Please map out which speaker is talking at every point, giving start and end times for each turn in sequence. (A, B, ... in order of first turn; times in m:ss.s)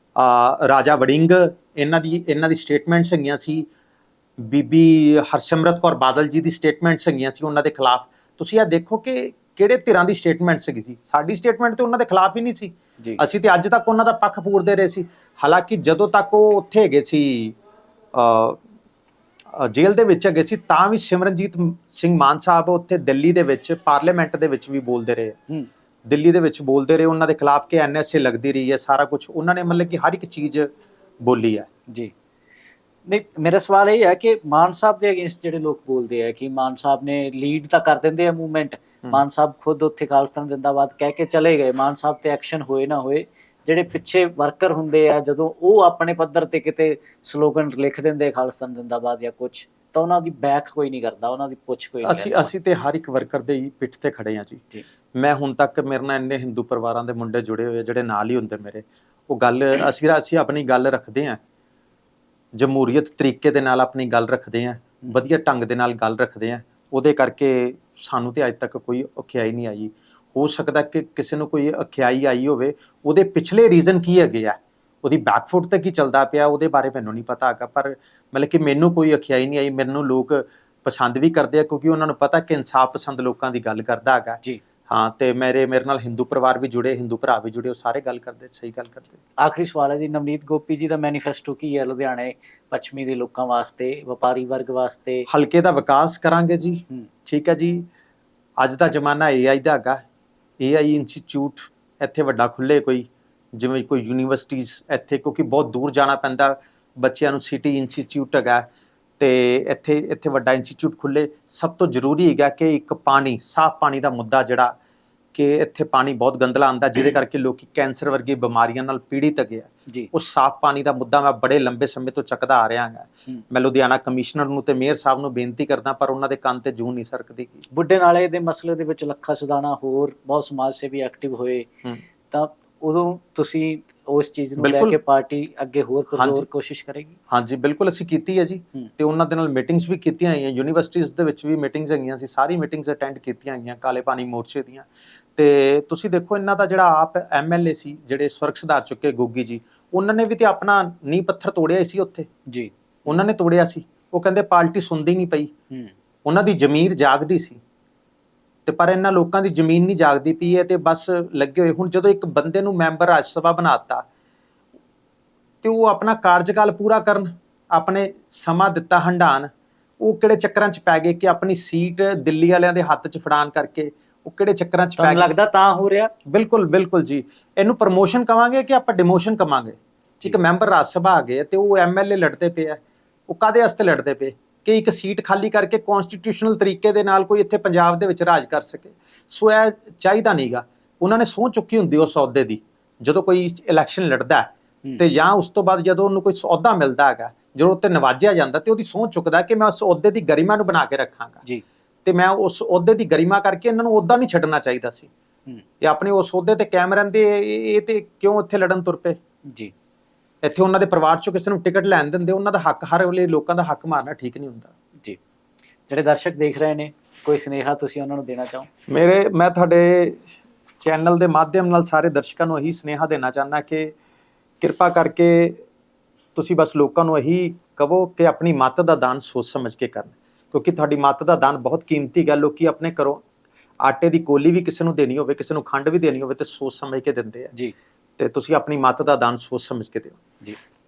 0:00.2-0:03.7 A
0:04.4-0:17.6 A
0:18.1-0:18.6 A
0:19.5-0:25.4 A
0:26.1-0:31.7 A
0:33.0-0:52.5 B
0:52.0-0:54.6 A
0:55.2-1:01.4 A
1:02.5-1:29.2 A
1:29.4-1:35.3 B
1:35.3-1:37.9 A
1:38.6-1:40.0 A
1:40.6-1:48.7 A
1:49.2-1:54.7 A
1:55.3-2:07.6 A
2:07.7-2:11.7 B
2:12.3-2:17.2 B
2:14.6-2:15.0 A
2:16.2-2:16.4 A
2:17.3-2:32.3 A
2:32.5-2:33.2 B
2:33.0-2:35.5 A
2:36.2-2:37.6 A
2:38.6-2:44.0 A
2:45.6-2:55.3 A
2:55.0-2:56.1 B
2:56.2-3:21.4 A
3:22.0-3:25.1 A
3:25.8-3:29.2 A
3:30.4-3:34.7 A
3:35.9-3:38.7 B
3:38.9-3:43.9 A
3:44.6-3:45.6 A
3:46.3-3:53.2 A
3:53.8-3:57.5 A
3:58.2-4:00.2 A